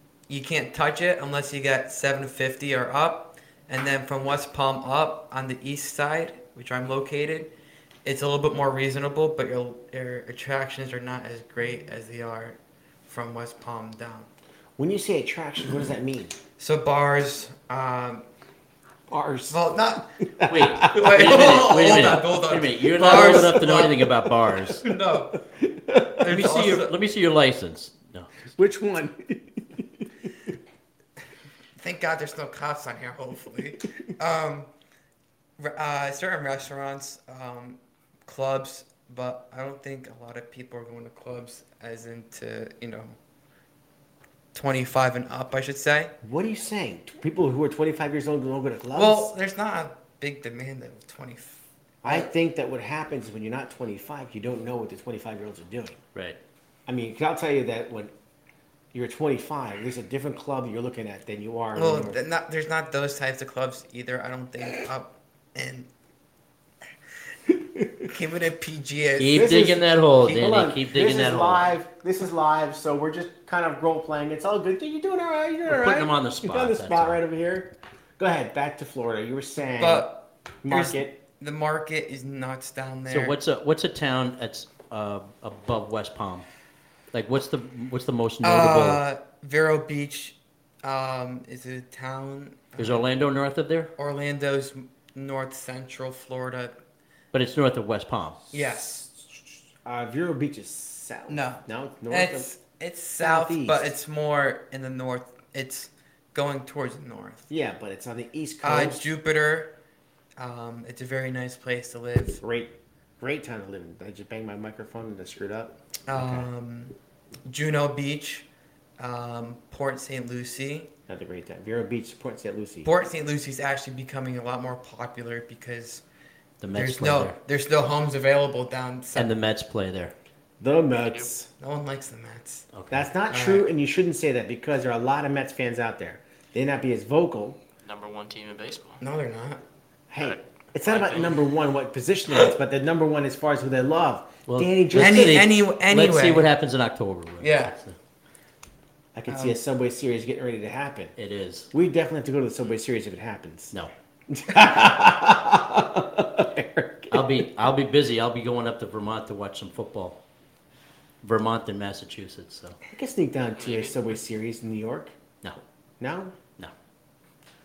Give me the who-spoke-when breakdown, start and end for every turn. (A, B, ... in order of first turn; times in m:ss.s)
0:00.3-0:07.5 A
0:08.0-0:14.3 A
0:14.8-0:16.4 B
0:16.6-0:18.2 A
0:19.1-0:22.2 B
0:19.5-0:20.1 A
0:20.5-0:24.9 C
0:20.8-0:24.0 A
0:22.9-0:25.0 B
0:24.7-0:25.4 A
0:25.5-0:26.5 B
0:26.2-0:26.9 A
0:26.2-0:28.4 C
0:28.5-0:30.1 B
0:31.8-0:34.7 A
0:35.6-0:43.2 A
0:44.5-0:46.1 A
0:46.2-0:49.3 B
0:48.9-0:52.3 A
0:52.0-0:56.0 B
0:56.1-0:56.4 C
0:56.9-0:58.1 B
0:58.9-1:02.2 B
1:01.7-1:05.9 A
1:07.5-1:08.1 B
1:08.1-1:09.6 A
1:09.2-1:11.7 C
1:09.3-1:20.1 B
1:15.6-1:17.2 C
1:19.8-1:23.4 A
1:20.6-1:21.2 B
1:23.1-1:26.5 C
1:27.1-1:29.0 C
1:28.4-1:33.0 A
1:32.8-1:33.9 C
1:34.0-1:36.8 A
1:37.3-1:38.4 C
1:38.5-1:39.1 A
1:38.5-1:39.2 B
1:39.8-1:42.5 B
1:41.3-1:47.5 A
1:43.2-1:43.9 B
1:47.5-1:49.1 B
1:48.6-1:49.7 A
1:50.4-1:52.4 A
1:52.4-1:56.5 B
1:56.1-1:56.9 A
1:57.5-1:58.5 A
1:59.0-2:00.9 A
2:01.1-2:02.9 B
2:02.8-2:06.0 A
2:06.6-2:07.4 C
2:06.7-2:09.3 A
2:09.1-2:10.1 C
2:10.6-2:11.5 B
2:11.0-2:11.3 D
2:11.6-2:12.7 A
2:12.7-2:13.1 C
2:12.9-2:17.6 B
2:13.3-2:13.7 A
2:17.8-2:19.0 D
2:19.0-2:19.6 A
2:20.1-2:25.5 B
2:20.2-2:21.4 D
2:24.5-2:28.0 C
2:24.9-2:26.5 A
2:27.4-2:27.8 A
2:29.1-2:31.1 B
2:29.3-2:29.6 A
2:31.2-2:31.7 C
2:31.7-2:33.7 B
2:34.3-2:37.5 B
2:37.1-2:40.2 C
2:41.2-2:42.8 C
2:42.9-2:45.1 B
2:43.6-2:43.9 D
2:46.0-2:46.4 B